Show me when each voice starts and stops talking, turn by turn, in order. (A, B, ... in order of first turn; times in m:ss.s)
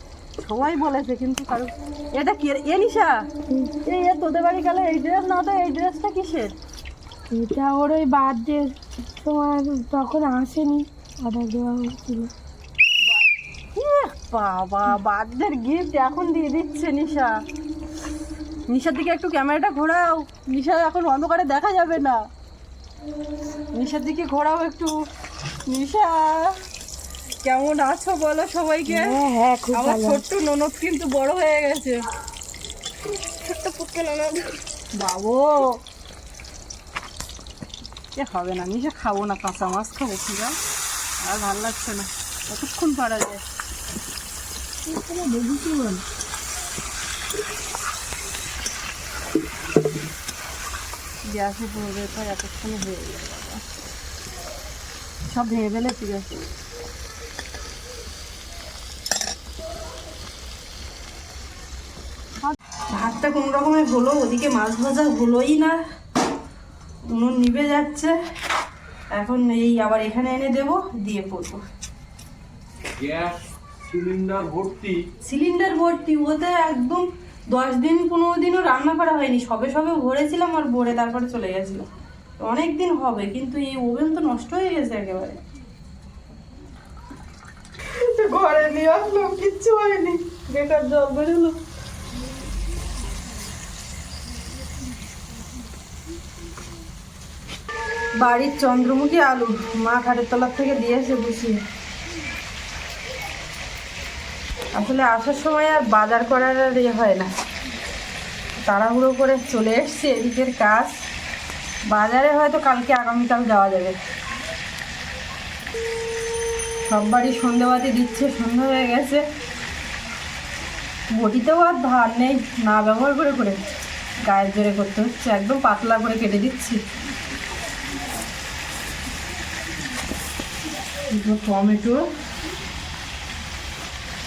0:00.4-0:03.3 A
0:03.5-0:03.8 B
0:03.8-0:06.5 A
0:07.3-0:12.3 B
0:13.1-0:17.4 A
0:18.7-0:22.2 A
0:23.7-0:25.0 A
0:25.7-0:26.6 A
0:27.4-0:29.2 A
0:28.9-0:30.2 B
0:29.7-0:32.0 A
0:33.1-0:34.6 B
0:34.9-0:35.8 A
0:38.2-0:40.6 A
0:41.2-0:43.4 A
0:45.0-0:46.0 A
0:51.2-0:53.6 A
0:55.3-0:56.3 A
1:02.9-1:05.8 A
1:07.1-1:08.2 A
1:09.1-1:11.6 A
1:13.0-1:15.0 C
1:15.2-1:21.9 A
1:22.4-1:25.4 A
1:28.0-1:31.6 A
1:38.2-1:41.6 A
1:44.8-1:47.3 A
1:48.6-1:51.0 A
1:51.9-1:54.0 A
1:56.9-1:59.2 A
2:01.1-2:03.6 A
2:04.2-2:06.8 A
2:11.1-2:12.1 A